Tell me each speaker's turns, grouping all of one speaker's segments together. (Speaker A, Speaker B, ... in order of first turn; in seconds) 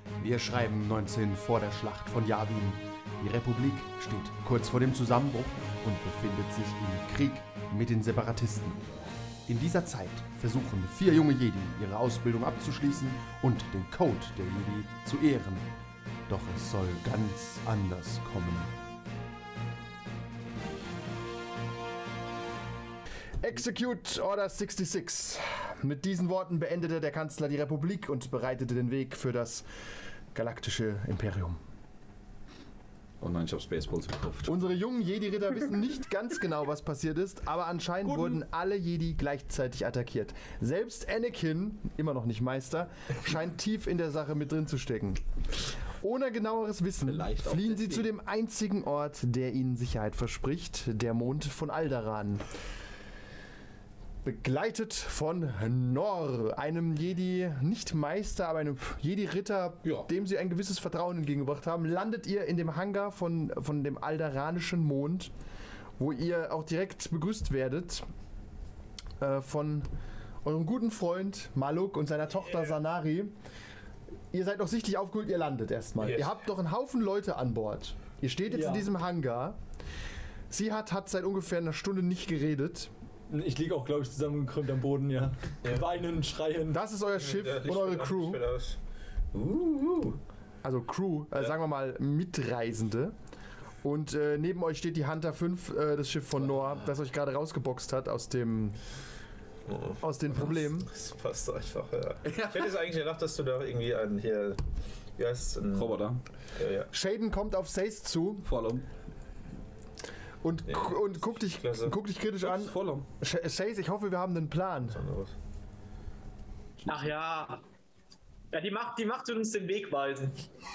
Speaker A: 0.2-8.8, 9.5-15.7, 16.3-18.7, 23.4-29.6, 30.3-31.6, 34.5-45.2, 46.0-52.4, 54.2-65.3, 66.0-68.0, 69.2-69.9, 70.4-73.3, 74.3-79.6, 80.5-82.9, 86.7-88.4, 90.6-93.1, 93.8-98.8, 100.0-100.9, 106.9-108.5, 110.4-115.0
Speaker B: 33.2-34.6, 38.0-38.4, 47.0-48.1, 102.2-102.8, 105.7-106.2, 108.5-108.8, 112.4-113.0
Speaker C: 76.0-76.3, 87.2-88.8, 89.3-90.2, 99.7-104.6, 105.2-106.0, 106.5-106.9, 110.7-112.0, 114.9-115.3
Speaker D: 78.5-78.9, 83.3-86.8
Speaker E: 116.8-117.6, 118.5-120.5